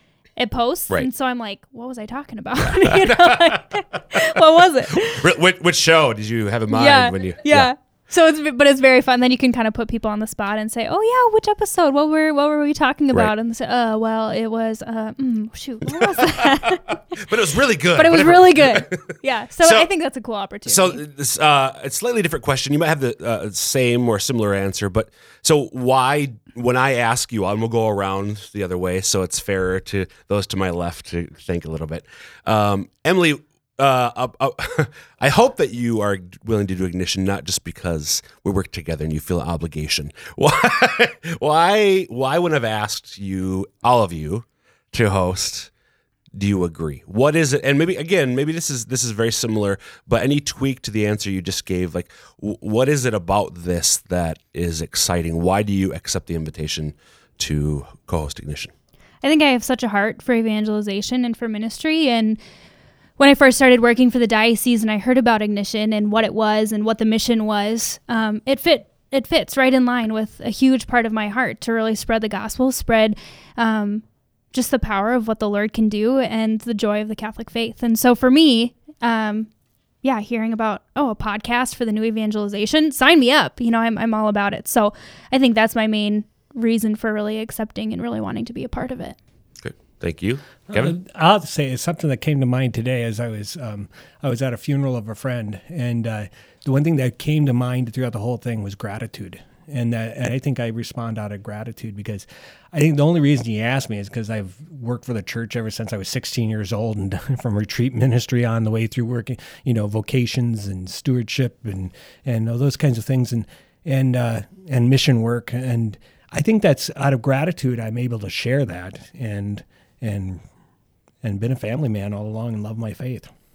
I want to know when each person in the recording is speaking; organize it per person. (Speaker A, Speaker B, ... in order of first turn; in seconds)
Speaker A: 0.4-5.3, 6.7-17.2, 17.9-21.0, 59.2-62.4, 63.2-79.5, 80.0-89.2
Speaker B: 2.8-4.3, 4.9-7.7, 15.9-19.9, 20.7-45.7, 46.4-58.7, 89.6-91.0
Speaker C: 90.7-120.4, 121.2-123.3